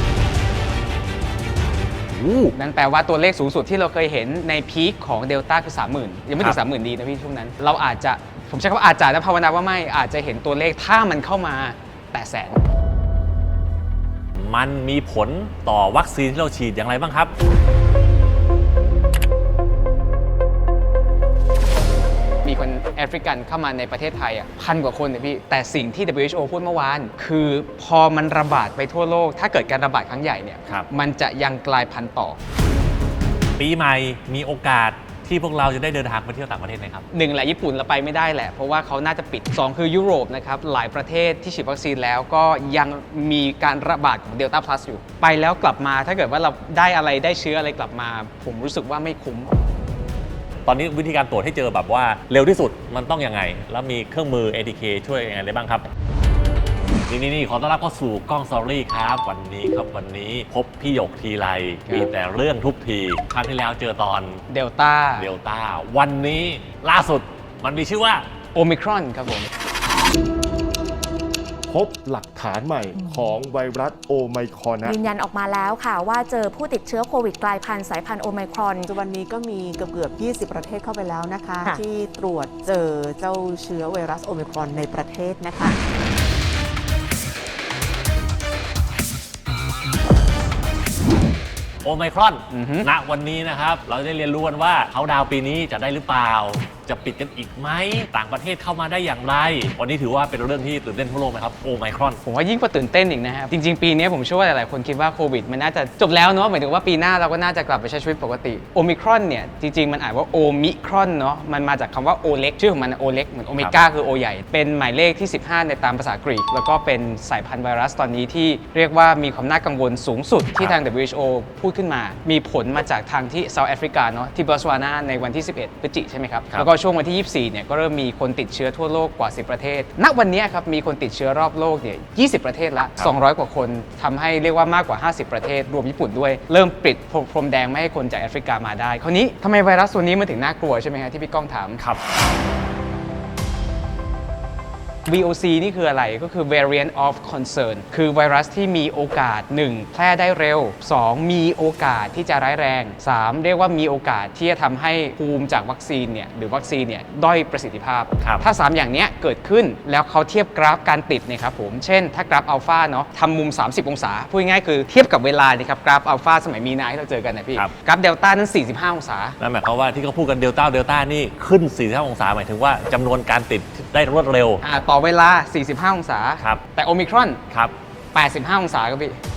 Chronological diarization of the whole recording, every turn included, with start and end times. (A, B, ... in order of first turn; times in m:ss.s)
0:02.1-0:02.5 A
0:02.6-0:12.6 B
0:14.4-0:17.3 A
0:22.4-0:32.4 B
0:33.6-0:37.0 A
0:37.1-0:49.5 B
0:50.6-0:55.8 A
0:57.1-1:04.4 A
1:04.5-1:05.3 B
1:05.2-1:08.3 A
1:08.6-1:09.5 B
1:11.7-1:15.0 C
1:14.8-1:18.9 D
1:18.9-1:25.8 E
1:31.8-1:42.2 A
1:32.5-1:32.9 B
1:42.2-2:21.8 B
2:25.1-2:49.4 B
2:49.4-2:54.6 A
2:54.6-2:57.4 B
2:58.1-2:59.2 B